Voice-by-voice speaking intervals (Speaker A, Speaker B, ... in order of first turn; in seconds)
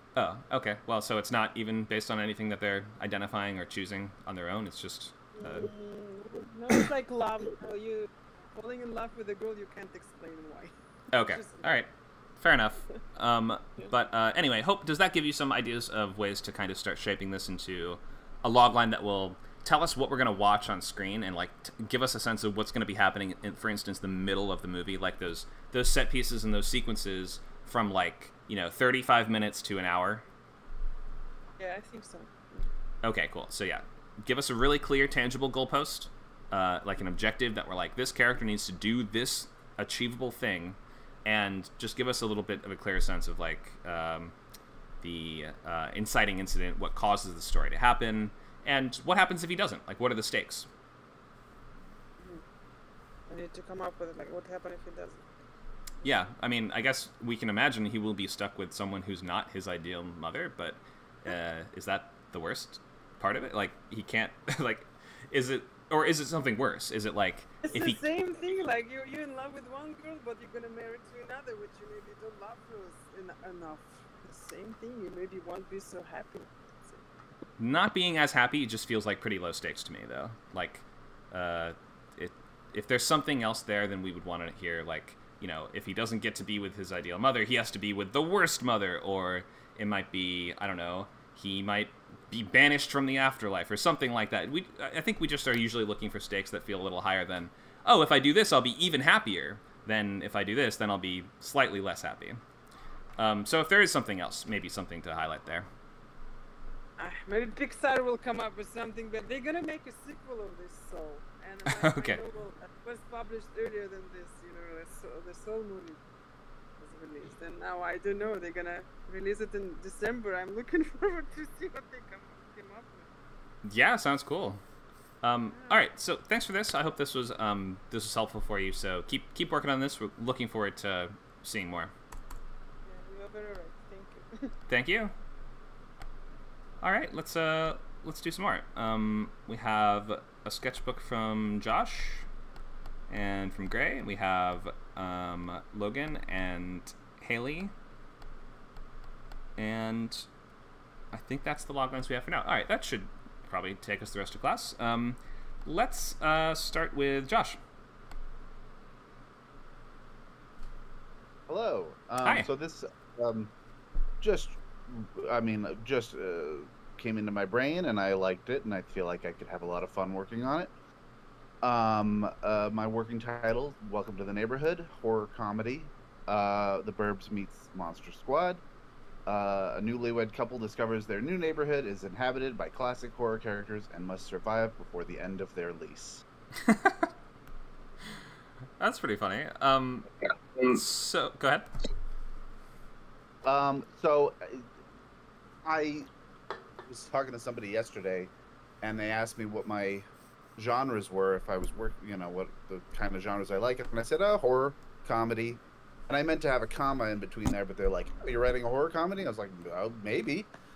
Speaker A: 0.1-5.7, 11.1-11.9, 12.4-30.2, 33.0-44.3, 45.0-50.7, 56.0-68.0, 77.6-102.4, 103.2-105.7, 111.7-112.2, 123.6-124.6, 125.2-131.9, 134.7-135.1, 136.8-142.3, 143.1-147.7, 149.6-150.3, 151.1-157.6, 162.2-162.5, 186.6-187.1, 188.8-191.7
Speaker B: 5.3-11.7, 31.6-32.7, 53.3-55.3, 67.6-77.0, 107.0-116.0, 116.8-123.1, 125.5-125.8, 132.8-134.5
Speaker C: 161.5-163.5, 164.2-170.7, 171.6-178.6, 179.2-186.2, 193.4-194.7, 195.6-196.1, 196.8-198.3, 198.8-210.5